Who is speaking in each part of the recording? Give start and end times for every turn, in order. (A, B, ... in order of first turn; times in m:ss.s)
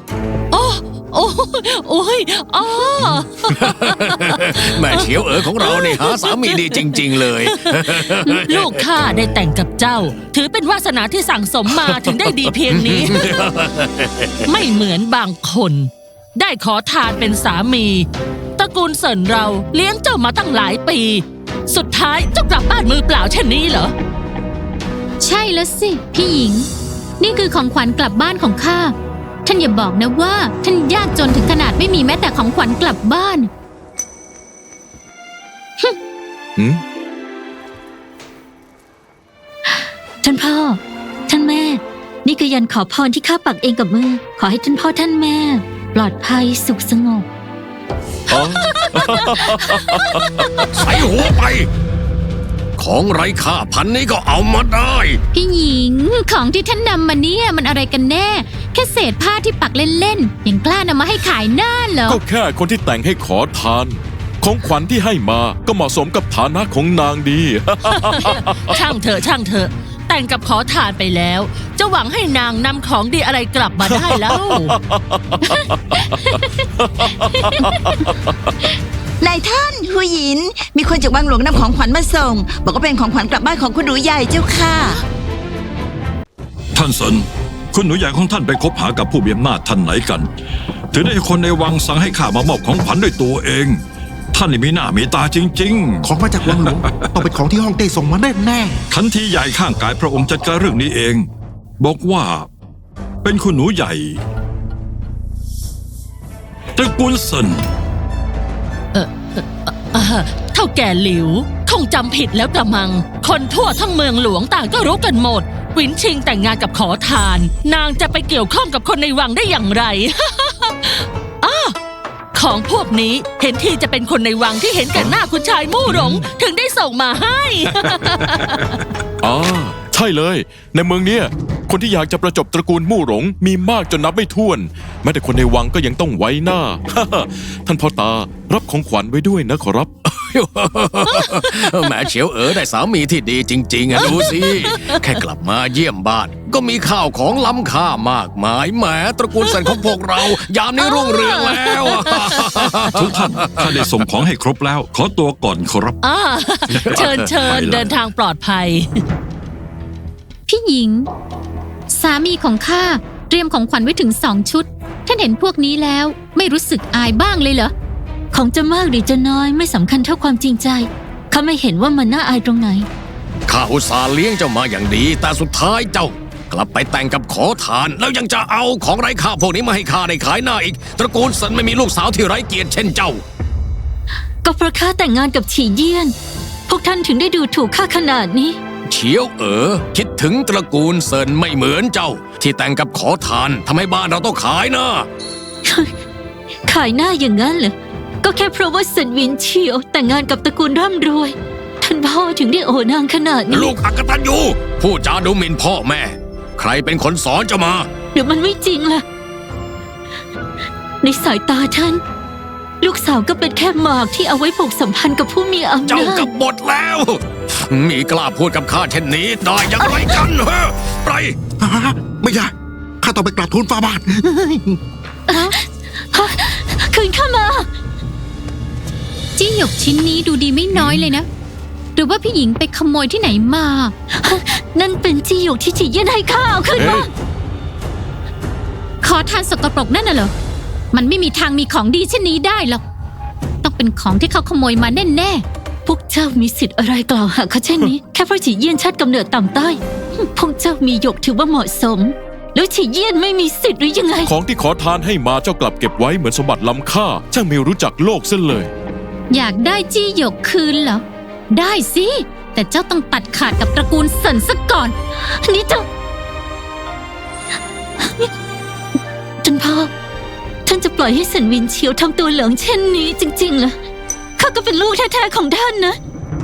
0:00.5-0:13.3 A
0:03.6-0:08.8 B
0:12.7-0:14.4 B
0:14.5-0:23.9 A
0:25.2-0:26.7 C
0:27.2-0:33.5 C
0:36.6-0:36.8 D
0:39.7-0:47.3 E
0:48.3-0:50.6 D
0:48.8-0:49.2 A
0:50.7-0:51.7 B
0:52.8-0:55.2 B
0:55.3-1:02.2 C
1:02.1-1:08.8 D
1:07.9-1:14.8 A
1:13.9-1:18.6 D
1:19.2-1:25.0 F
1:26.8-1:30.3 G
1:30.9-1:33.8 G
1:34.3-1:36.1 G
1:36.0-1:38.8 H
1:38.9-1:41.3 G
1:41.8-1:42.5 G
1:43.2-1:44.2 G
1:46.8-1:47.7 G
1:48.9-2:01.8 A
2:02.3-2:08.7 A
2:05.9-2:06.3 D
2:09.2-2:19.9 D
2:20.1-2:33.9 B
2:21.1-2:22.0 A
2:23.9-2:25.2 A
2:29.4-2:29.8 A
2:30.8-2:32.8 A
2:32.9-2:36.0 G
2:36.0-2:39.0 A
2:36.8-2:37.4 B
2:36.8-2:37.9 G
2:40.5-2:41.1 C
2:41.9-2:47.7 C
2:48.3-2:52.9 E
2:53.5-3:03.2 B
3:04.4-3:06.2 E
3:06.7-3:08.6 E
3:08.9-3:15.1 B
3:15.6-3:15.9 E
3:16.7-3:23.7 E
3:23.5-3:27.9 B
3:28.1-3:29.0 E
3:31.0-3:32.0 E
3:32.8-3:36.3 E
3:35.9-3:41.4 B
3:41.6-3:44.8 H
3:45.3-3:47.7 E
3:45.3-3:45.6 C
3:49.4-3:51.3 C
3:50.7-3:51.1 D
3:52.0-3:53.9 C
3:54.1-3:57.1 E
3:56.8-3:57.1 D
3:59.0-4:00.3 C
4:00.9-4:02.8 C
4:03.6-4:05.4 C
4:05.8-4:14.3 E
4:14.3-4:18.7 D
4:19.3-4:25.0 C
4:25.2-4:25.9 E
4:28.0-4:28.3 E
4:29.4-4:29.9 E
4:30.7-4:33.8 E
4:34.4-4:36.0 E